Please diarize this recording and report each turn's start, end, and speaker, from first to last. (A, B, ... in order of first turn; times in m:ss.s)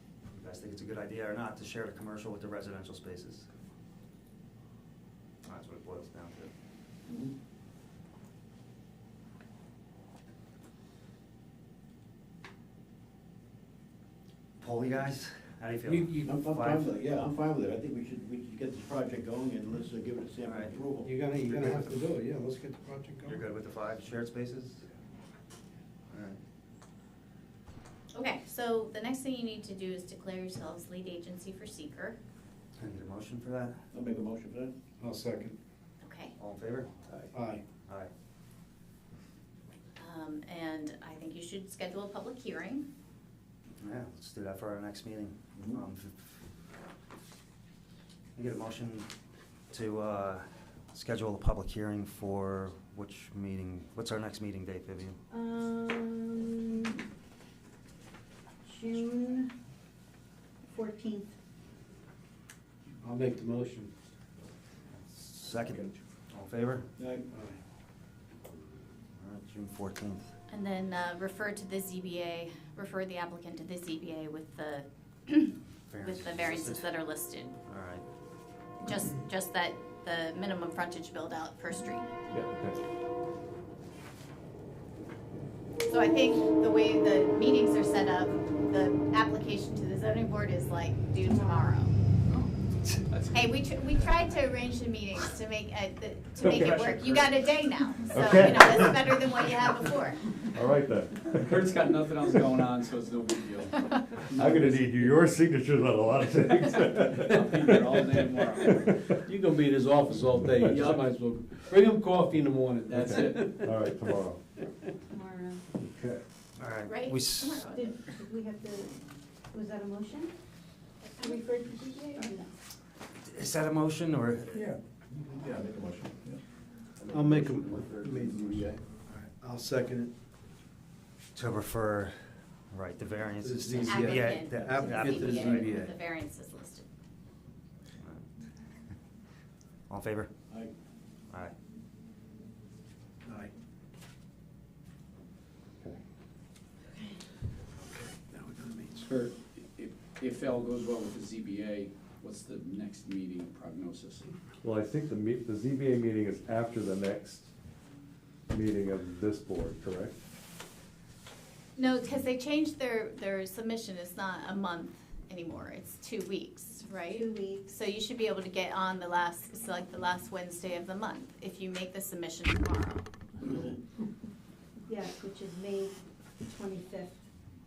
0:00.3-0:03.5 A
0:05.4-0:06.5 A
0:07.1-0:07.3 B
0:14.6-0:16.9 A
0:15.9-0:16.3 C
0:16.2-0:21.1 B
0:20.4-0:20.7 A
0:21.0-0:23.4 C
0:21.4-0:21.9 A
0:23.2-0:24.8 A
0:26.1-0:26.4 A
0:28.1-0:32.2 D
0:32.8-0:33.8 A
0:33.9-0:34.7 B
0:35.0-0:35.6 C
0:36.0-0:36.3 D
0:36.4-0:36.9 A
0:37.3-0:37.6 C
0:40.0-0:42.8 D
0:43.8-0:46.1 A
0:45.6-0:45.8 B
0:48.4-0:49.1 A
0:49.7-0:55.2 A
0:55.3-0:57.0 E
0:58.6-0:59.5 E
1:00.7-1:01.3 E
1:03.0-1:03.9 C
1:05.1-1:06.8 A
1:07.0-1:07.3 B
1:07.3-1:07.6 C
1:09.2-1:10.3 A
1:10.5-1:17.6 D
1:15.9-1:16.9 A
1:17.7-1:18.0 A
1:18.8-1:22.1 D
1:22.3-1:22.8 F
1:25.9-1:31.9 D
1:31.2-1:31.8 E
1:33.1-1:33.4 G
1:33.3-1:40.2 D
1:36.4-1:37.3 A
1:38.1-1:39.0 F
1:40.5-1:41.8 F
1:41.4-1:45.0 G
1:44.3-1:49.1 F
1:46.9-1:49.0 G
1:49.2-1:53.9 C
1:50.4-1:50.8 F
1:50.7-1:51.1 G
1:52.9-1:53.6 G
1:52.9-1:54.4 F
1:55.1-1:55.6 E
1:55.7-1:56.2 F
1:56.6-1:57.6 A
1:56.9-1:58.1 D
1:57.6-1:58.9 E
1:59.5-2:00.3 E
2:01.2-2:02.5 E
2:03.2-2:04.7 A
2:05.1-2:06.4 B
2:07.0-2:08.8 B
2:07.1-2:10.1 C
2:11.3-2:12.2 A
2:12.7-2:15.6 A
2:13.4-2:15.9 C
2:13.8-2:16.9 D
2:18.0-2:18.3 A
2:19.9-2:20.3 A
2:23.2-2:23.5 C
2:26.9-2:27.2 D
2:27.8-2:29.1 C
2:29.0-2:34.3 G
2:34.6-2:37.5 F
2:38.5-2:40.2 F
2:41.8-2:53.1 D
2:47.1-2:47.6 E
2:54.9-2:57.1 E